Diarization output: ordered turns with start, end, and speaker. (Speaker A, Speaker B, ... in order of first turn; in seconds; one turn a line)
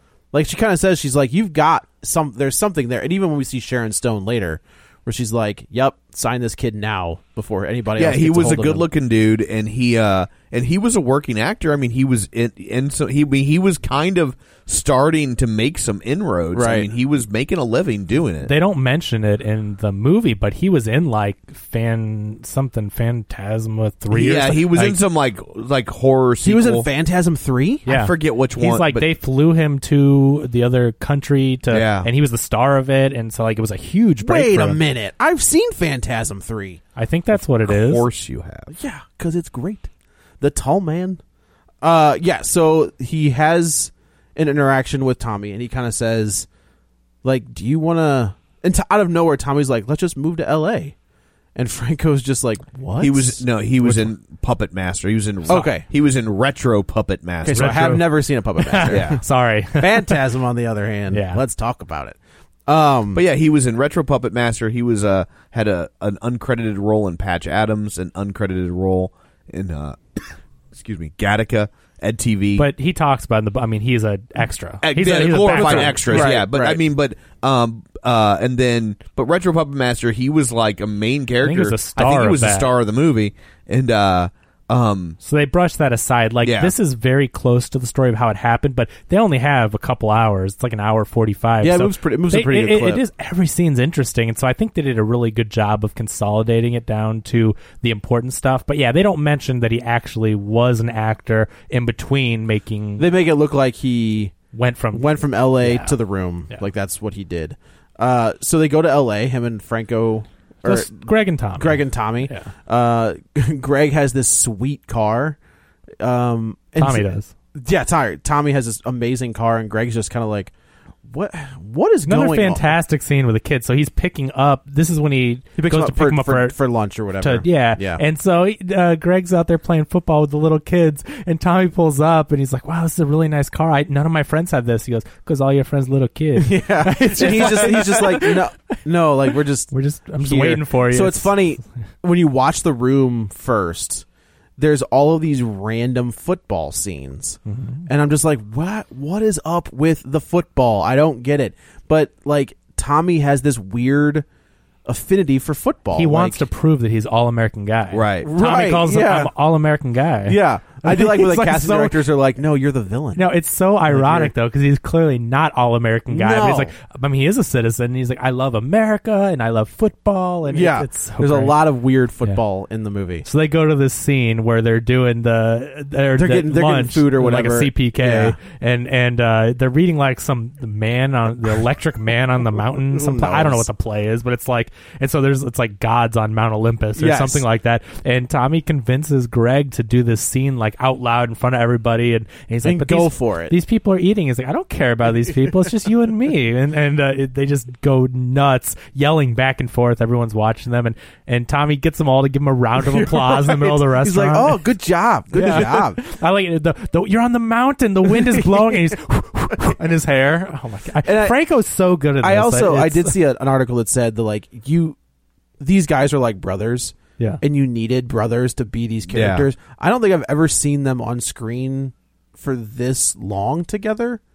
Speaker A: 0.3-8.9
Speaker B: 8.0-18.5
Speaker A: 16.5-16.9
Speaker C: 18.4-25.0
Speaker B: 24.1-26.9
Speaker A: 26.4-27.9
Speaker B: 27.9-29.1
Speaker C: 27.9-34.8
Speaker B: 31.7-32.1
Speaker A: 34.2-36.8
Speaker C: 37.0-38.0
Speaker B: 37.3-38.7
Speaker A: 38.7-39.9
Speaker A: 40.4-41.2
Speaker A: 41.8-46.5
Speaker A: 47.2-50.9
Speaker A: 51.5-54.1
Speaker B: 53.0-57.8
Speaker A: 55.5-55.9
Speaker A: 57.4-59.2
Speaker C: 57.5-60.2
Speaker B: 58.9-59.2
Speaker A: 59.7-63.2
Speaker C: 61.1-61.4
Speaker B: 63.1-72.7
Speaker C: 72.6-76.3
Speaker B: 74.8-85.2
Speaker A: 75.5-76.8
Speaker C: 81.4-82.7
Speaker C: 85.2-103.1
Speaker B: 86.4-86.7
Speaker A: 91.6-93.0
Speaker A: 103.0-104.3
Speaker C: 104.5-106.0
Speaker A: 104.9-115.4
Speaker C: 110.6-112.5
Speaker A: 116.0-120.5
Speaker C: 116.8-117.3
Speaker A: 121.1-122.7
Speaker C: 122.0-126.5
Speaker A: 125.6-128.0
Speaker C: 127.2-138.4
Speaker A: 136.4-144.0
Speaker C: 139.7-141.4
Speaker A: 144.6-154.2
Speaker C: 147.5-147.9
Speaker A: 154.8-156.4
Speaker C: 155.9-162.0
Speaker B: 157.9-158.3
Speaker A: 158.2-159.3
Speaker A: 160.3-163.2
Speaker C: 163.1-171.6
Speaker A: 163.9-164.3
Speaker A: 166.1-166.7
Speaker A: 170.5-173.2
Speaker C: 173.2-204.6
Speaker A: 176.2-178.4
Speaker A: 182.7-183.7
Speaker A: 186.9-187.4
Speaker A: 192.6-193.5
Speaker A: 202.8-206.0
Speaker C: 205.3-213.1
Speaker A: 208.2-208.7
Speaker A: 211.0-211.4
Speaker A: 212.2-214.9
Speaker A: 215.6-224.2
Speaker B: 219.1-219.5